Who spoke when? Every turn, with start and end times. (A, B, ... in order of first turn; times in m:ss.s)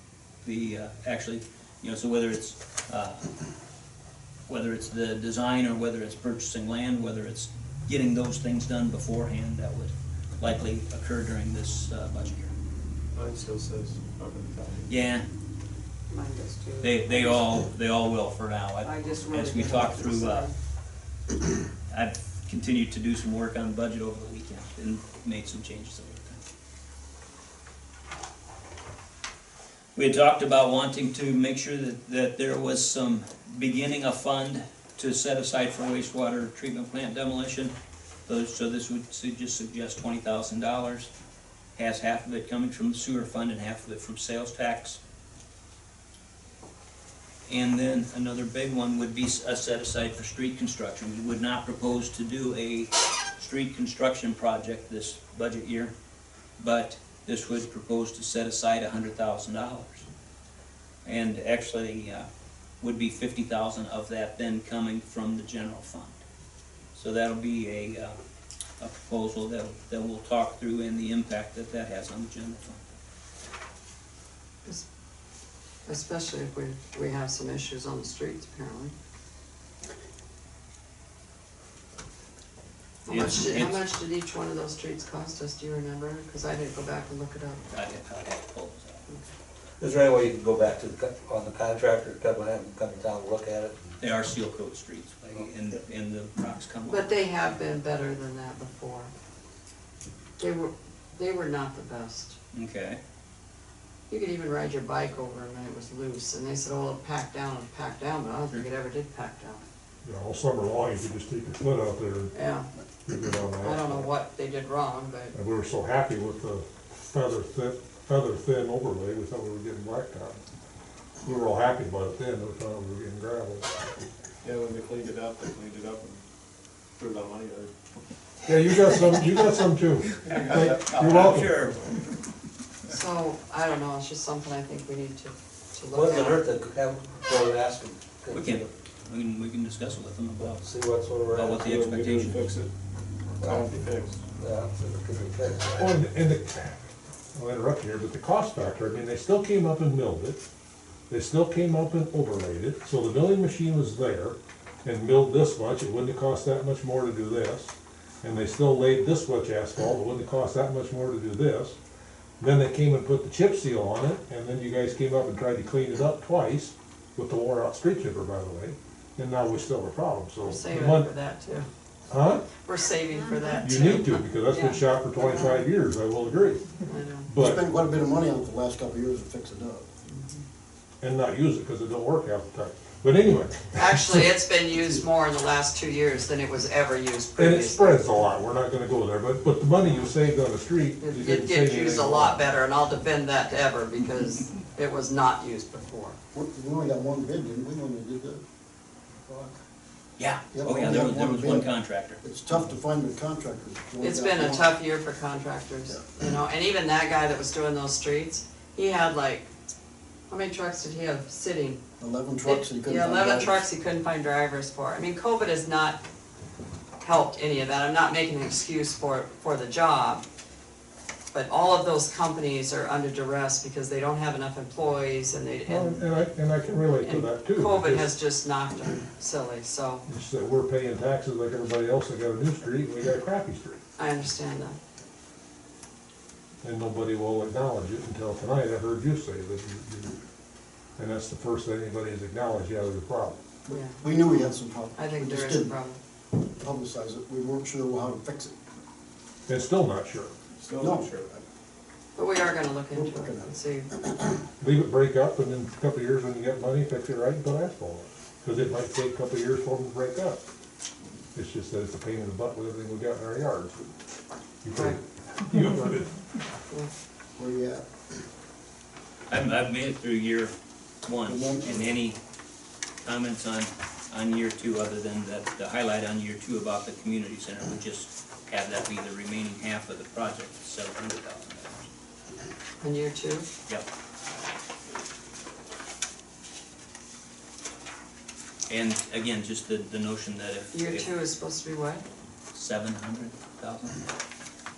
0:00.4-0:03.4 A
0:04.5-0:12.5 A
0:13.1-0:14.8 B
0:14.9-0:15.3 A
0:16.1-0:17.5 C
0:16.8-0:20.5 A
0:18.8-0:20.5 C
0:21.9-0:26.4 A
0:30.0-0:37.7 A
0:38.3-0:41.1 A
0:41.8-0:45.0 A
0:47.5-0:55.9 A
0:56.6-1:00.1 A
1:01.0-1:02.3 A
1:02.8-1:06.2 A
1:06.9-1:08.2 A
1:08.8-1:12.9 A
1:15.9-1:18.9 C
1:23.1-1:27.6 C
1:23.1-1:23.8 A
1:27.7-1:29.1 A
1:29.8-1:33.8 D
1:34.0-1:37.1 A
1:36.9-1:39.1 C
1:40.4-1:42.4 C
1:42.5-1:43.0 A
1:44.1-1:49.6 C
1:50.0-1:52.3 E
1:52.3-1:52.7 C
1:53.1-1:54.1 E
1:53.6-1:55.4 C
1:55.3-2:00.4 E
2:01.2-2:03.7 E
2:04.4-2:06.2 B
2:07.0-2:07.7 B
2:08.4-2:11.6 E
2:10.2-2:11.8 A
2:10.3-2:11.1 B
2:12.9-2:16.4 C
2:15.9-2:18.7 D
2:18.3-2:20.6 A
2:20.5-2:21.8 D
2:21.3-2:22.4 A
2:21.6-2:22.7 B
2:23.4-2:23.7 D
2:23.4-2:24.2 B
2:24.4-2:26.0 D
2:25.8-2:30.4 E
2:31.1-2:41.8 E
2:42.4-2:51.1 E
2:50.4-2:51.7 C
2:52.1-2:52.5 E
2:52.6-2:55.2 C
2:53.6-2:57.6 E
2:56.9-2:57.3 C
2:57.4-2:59.9 F
3:00.1-3:00.4 C
3:01.0-3:04.3 E
3:03.8-3:08.1 C
3:07.4-3:12.4 E
3:11.0-3:16.2 C
3:16.3-3:18.4 F
3:20.2-3:22.2 A
3:20.5-3:24.7 F
3:24.0-3:29.5 C
3:30.3-3:31.8 C
3:32.0-3:33.6 F
3:32.4-3:36.0 C
3:37.0-3:40.2 C
3:41.3-3:46.1 C
3:45.7-3:48.1 E
3:46.9-3:50.0 C
3:50.1-3:53.8 E
3:54.0-3:54.8 C
3:56.6-4:00.2 E
4:01.0-4:03.4 E
4:03.7-4:05.7 F
4:03.7-4:04.0 C
4:05.0-4:06.0 C
4:06.4-4:08.6 F
4:09.5-4:10.3 E
4:10.6-4:11.3 B
4:10.8-4:11.4 F
4:12.2-4:13.9 C
4:12.9-4:14.2 F
4:14.6-4:20.4 E
4:21.4-4:23.8 E
4:24.6-4:26.4 E
4:24.7-4:25.0 C
4:27.4-4:27.9 F
4:29.3-4:30.5 A
4:31.0-4:32.2 A
4:31.2-4:31.9 F
4:33.0-4:41.9 A
4:42.8-4:43.5 C
4:48.7-4:51.1 A
4:50.7-4:52.0 C
4:52.5-4:54.0 A